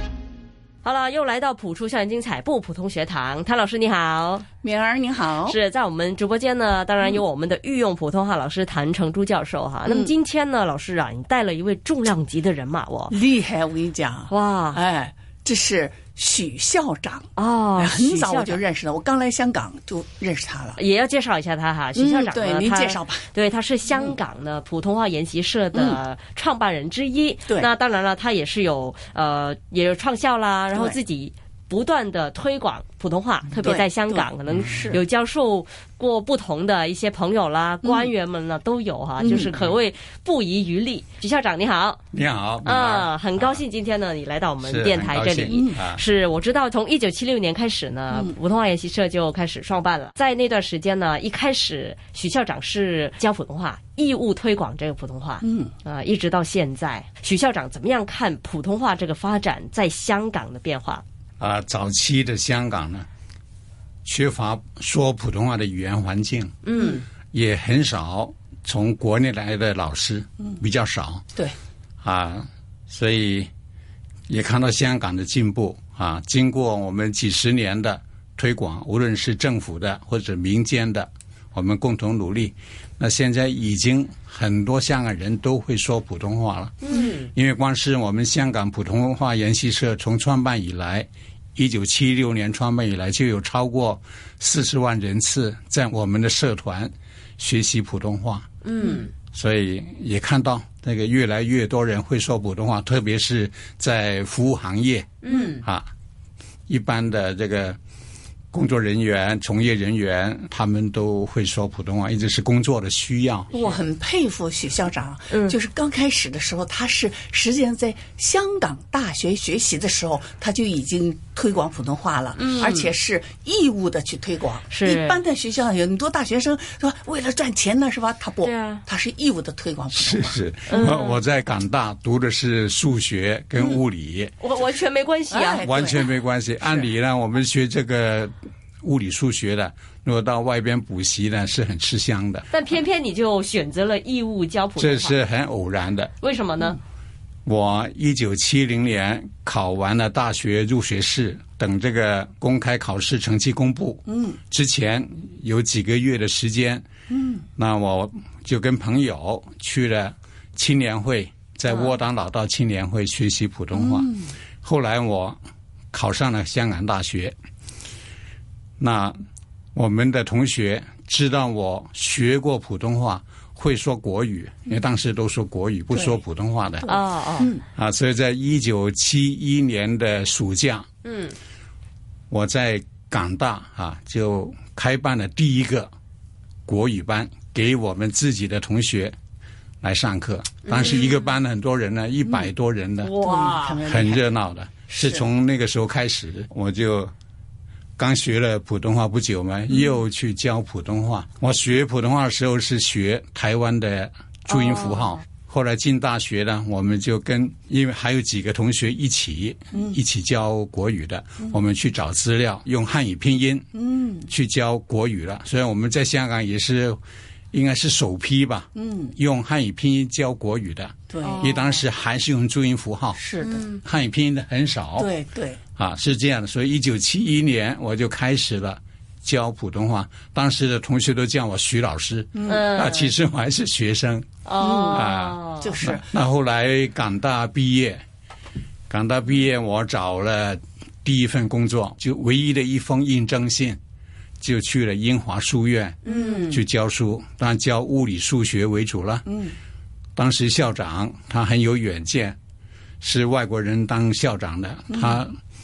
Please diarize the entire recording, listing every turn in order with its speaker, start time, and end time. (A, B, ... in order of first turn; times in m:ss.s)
0:00.8-0:04.4 A
0:04.6-0:05.6 B
0:05.4-0:13.1 A
0:09.8-0:10.1 B
0:13.1-0:20.8 B
0:14.3-0:14.8 A
0:17.4-0:18.6 A
0:20.8-0:42.0 A
0:21.9-0:23.3 B
0:23.9-0:24.2 B
0:25.7-0:26.0 B
0:30.7-0:31.0 B
0:33.6-0:35.0 B
0:37.8-0:38.1 B
0:39.2-0:39.6 B
0:42.1-0:43.6 C
0:42.6-1:01.0 A
0:44.6-0:46.0 C
0:45.5-0:45.8 B
0:55.4-0:55.7 B
1:01.4-1:03.1 C
1:04.0-1:06.6 C
1:06.6-1:07.0 A
1:07.3-1:11.2 C
1:12.0-1:13.5 C
1:14.3-1:38.5 C
1:26.8-1:27.3 A
1:38.6-1:39.1 A
1:39.3-1:45.9 C
1:45.2-1:45.6 A
1:46.7-1:47.8 C
1:48.5-1:53.5 C
1:53.5-2:10.4 B
1:55.3-1:55.6 A
2:02.3-2:02.9 A
2:04.7-2:05.2 A
2:08.4-2:08.8 A
2:09.9-2:14.3 C
2:10.7-2:11.2 A
2:14.4-2:15.7 A
2:15.3-2:16.1 B
2:15.6-2:22.5 C
2:22.5-2:25.1 A
2:24.8-2:26.1 C
2:26.2-2:26.8 A
2:27.4-2:36.8 C
2:34.1-2:34.4 B
2:37.1-2:37.4 B
2:37.6-2:45.4 C
2:43.7-2:44.3 B
2:45.9-2:47.3 C
2:48.8-2:49.2 C
2:49.7-2:56.9 C
2:55.9-2:56.2 B
2:56.8-2:57.6 B
2:56.8-2:57.5 A
2:57.7-3:00.8 C
3:01.0-3:01.4 A
3:02.3-3:05.9 C
3:06.7-3:09.1 C
3:09.8-3:13.2 C
3:10.6-3:11.1 A
3:13.0-3:13.8 A
3:13.2-3:14.2 B
3:13.8-3:17.1 C
3:14.9-3:15.3 B
3:18.0-3:33.6 C
3:24.5-3:25.2 A
3:29.7-3:30.0 B
3:33.7-3:34.3 B
3:34.3-3:37.0 C
3:37.5-3:43.2 C
3:38.7-3:39.2 B
3:41.1-3:41.4 B
3:41.2-3:41.8 A
3:43.1-3:43.7 B
3:43.4-3:43.8 A
3:43.8-3:45.1 C
3:45.0-3:45.6 B
3:45.8-3:58.0 C
3:52.3-3:52.7 B
3:52.4-3:53.1 A
3:54.4-3:55.8 A
3:54.6-3:55.0 B
3:55.6-3:56.2 B
3:58.9-4:03.8 C
4:04.4-4:09.3 C
4:06.0-4:06.6 A
4:06.1-4:06.6 B
4:09.3-4:09.5 B
4:10.2-4:12.4 C
4:13.0-4:15.4 C
4:14.9-4:15.2 B